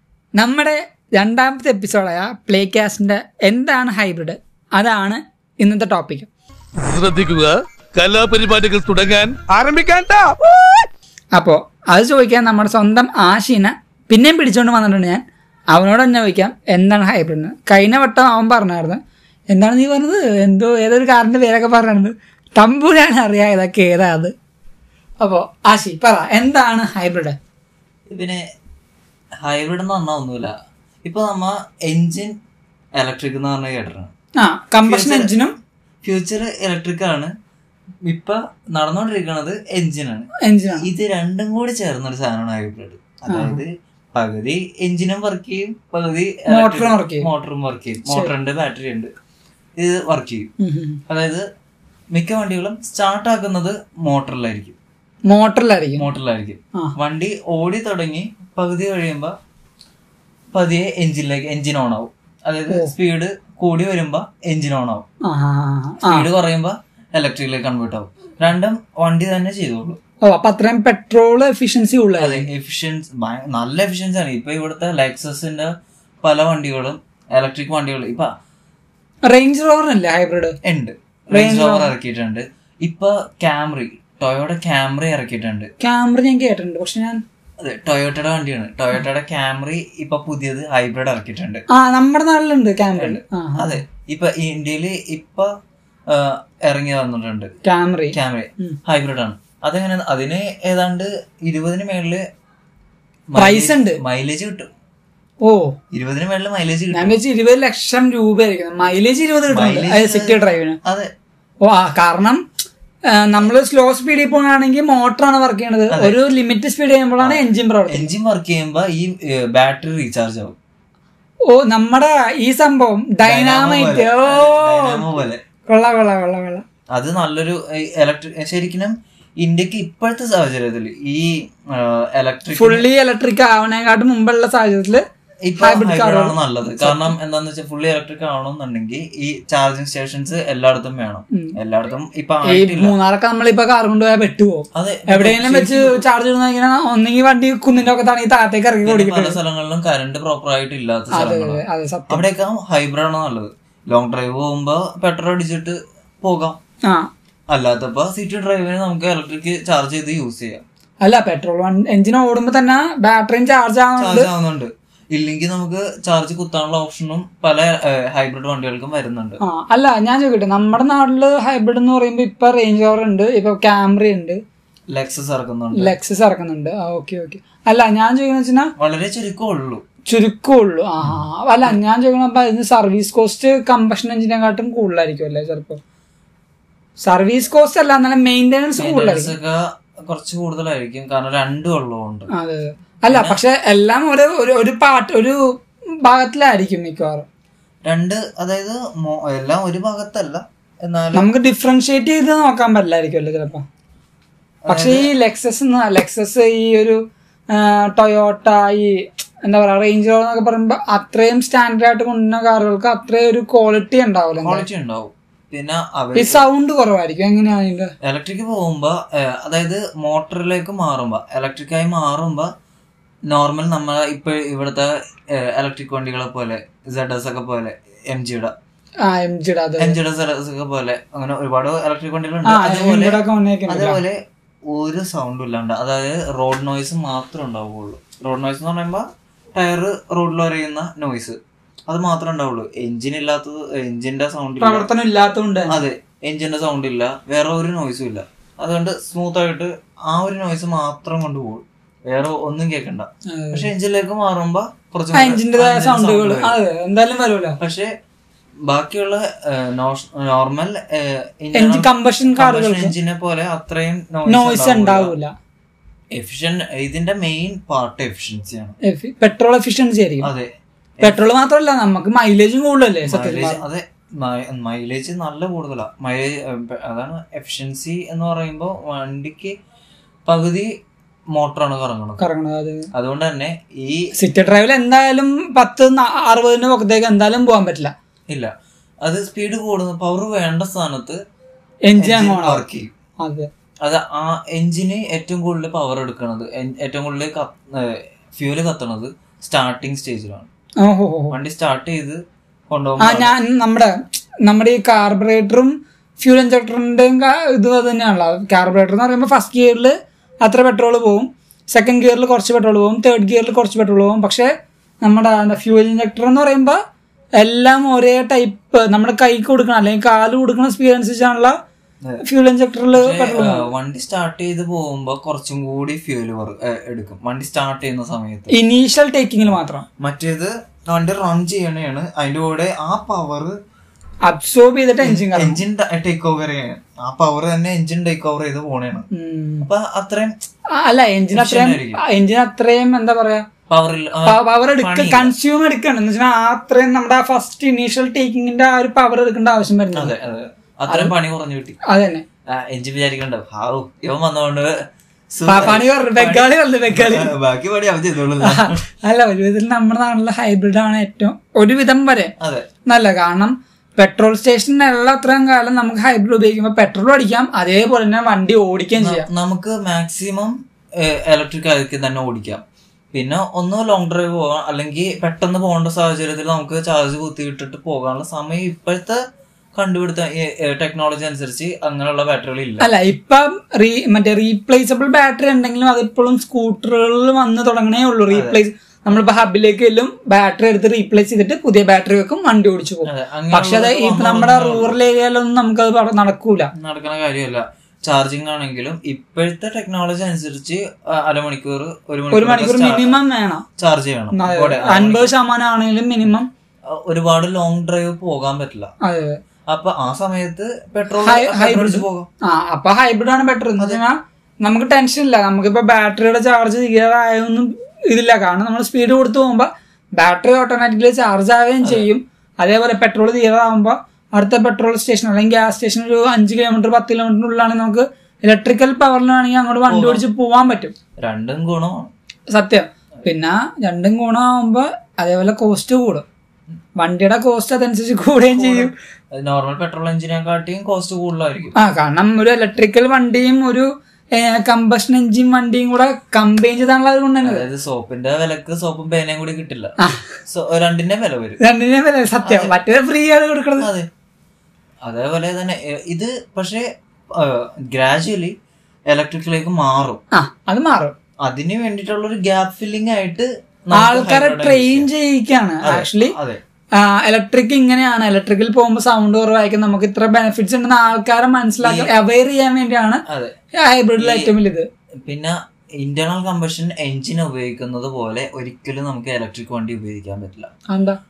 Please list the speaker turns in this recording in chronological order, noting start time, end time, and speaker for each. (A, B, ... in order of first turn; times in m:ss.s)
0:00.4-0:06.3 A
0:06.8-0:10.8 B
0:11.3-0:19.0 A
0:19.5-0:24.3 A
0:25.2-0:27.4 A
0:28.1-0:28.4 C
0:29.4-0:32.4 C
0:33.0-0:34.1 C
0:34.4-0:35.5 A
0:34.8-0:35.3 C
0:36.0-0:37.3 C
0:38.0-0:49.1 C
0:40.4-0:40.9 A
0:43.3-0:43.6 A
0:46.5-0:47.3 A
0:49.8-0:50.5 C
0:50.6-0:51.0 A
0:51.1-0:51.4 C
0:52.1-0:54.8 C
0:55.3-0:56.1 A
0:56.0-0:59.3 C
1:00.5-1:05.1 C
1:05.2-1:06.3 A
1:06.0-1:10.0 C
1:10.2-1:12.4 A
1:12.2-1:18.3 C
1:19.3-1:20.6 A
1:20.6-1:25.7 C
1:21.3-1:21.9 A
1:25.8-1:27.2 A
1:27.6-1:31.6 C
1:31.7-1:33.8 A
1:33.0-1:35.5 C
1:36.1-1:37.5 C
1:37.6-1:38.8 A
1:38.1-1:42.2 C
1:43.3-1:44.7 C
1:43.4-1:44.0 A
1:45.4-1:45.8 A
1:45.9-1:47.2 C
1:46.9-1:50.8 A
1:49.5-1:51.1 C
1:51.6-1:52.4 A
1:53.1-1:58.1 A
1:55.9-1:56.2 C
1:57.2-2:00.6 C
2:01.5-2:06.6 A
2:03.2-2:05.4 C
2:06.9-2:12.8 C
2:12.5-2:15.0 A
2:15.4-2:22.9 C
2:15.6-2:17.1 A
2:22.4-2:29.4 A
2:24.8-2:26.0 C
2:28.8-2:36.6 C
2:31.1-2:32.2 A
2:37.5-2:40.6 C
2:41.0-2:44.3 A
2:44.0-2:49.4 C
2:49.4-2:54.4 A
2:54.9-2:55.9 C
2:55.8-2:58.7 A
2:58.8-2:59.8 C
3:00.1-3:05.8 A
3:07.0-3:09.3 A
3:08.8-3:12.3 C
3:12.3-3:17.2 A
3:13.1-3:13.4 C
3:17.8-3:21.3 C
3:21.1-3:23.6 A
3:24.6-3:25.1 C
3:24.7-3:27.0 A
3:27.5-3:34.7 A
3:34.4-3:36.4 C
3:36.2-3:37.9 A
3:38.0-3:42.5 C
3:43.3-3:48.5 C
3:49.0-3:50.0 A
3:49.8-4:04.9 C
3:52.4-3:54.0 A
4:04.6-4:05.8 A
4:05.7-4:16.6 C
4:13.3-4:13.7 A
4:15.1-4:17.6 A
4:17.6-4:17.9 C
4:18.7-4:25.1 C
4:21.6-4:22.9 A
4:24.3-4:25.3 A
4:26.1-4:28.8 C
4:28.8-4:30.3 A
4:30.2-4:31.2 C
4:31.0-4:33.6 A
4:33.0-4:39.6 C
4:40.2-4:40.7 C
4:41.3-4:42.2 C
4:42.2-4:42.9 A
4:42.9-4:44.1 C
4:44.2-4:47.9 A
4:49.0-4:51.2 C
4:51.9-4:52.6 A
4:52.0-4:52.9 C
4:53.2-4:53.5 A
4:53.8-5:00.5 C
5:00.8-5:01.4 A
5:01.3-5:03.3 C
5:03.0-5:14.5 A
5:15.0-5:16.8 A
5:17.4-5:21.5 A
5:22.2-5:23.7 A
5:22.9-5:28.5 C
5:28.5-5:29.8 A
5:29.5-5:33.6 C
5:34.3-5:35.6 A
5:35.0-5:39.1 C
5:39.1-5:39.7 A
5:39.6-5:40.3 C
5:40.7-5:43.4 A
5:41.3-5:42.0 C
5:43.7-5:45.3 C
5:44.2-5:50.1 A
5:49.9-5:51.8 C
5:51.9-5:52.2 A
5:52.5-5:54.8 C
5:55.3-5:58.8 C
5:55.5-5:57.3 A
5:58.4-6:02.3 A
6:02.4-6:02.7 C
6:02.9-6:09.3 A
6:09.0-6:19.2 C
6:19.8-6:22.9 C
6:22.8-6:36.7 A
6:28.3-6:28.6 C
6:33.0-6:35.0 C
6:36.8-6:43.2 C
6:42.3-6:43.6 A
6:43.8-6:45.3 C
6:44.3-6:46.5 A
6:46.9-6:48.9 C
6:49.0-6:49.4 A
6:49.7-6:52.3 C
6:51.2-7:10.9 A
7:01.8-7:02.1 C
7:09.9-7:10.2 C
7:11.2-7:12.1 C
7:12.5-7:16.2 A
7:17.0-7:18.9 A
7:18.5-7:21.8 C
7:21.8-7:27.7 A
7:27.4-7:29.9 C
7:30.5-7:31.6 C
7:31.6-7:33.9 A
7:32.4-7:32.8 C
7:33.8-7:34.1 C
7:35.0-7:38.5 C
7:39.1-7:40.2 C
7:40.3-7:41.1 A
7:41.4-7:45.1 C
7:43.9-7:46.3 A
7:45.8-7:46.6 C
7:47.0-7:53.2 A
7:51.8-7:52.1 C
7:53.3-7:53.6 C
7:53.8-7:54.9 A
7:54.2-7:54.5 C
7:55.2-8:00.7 C
8:00.9-8:01.2 A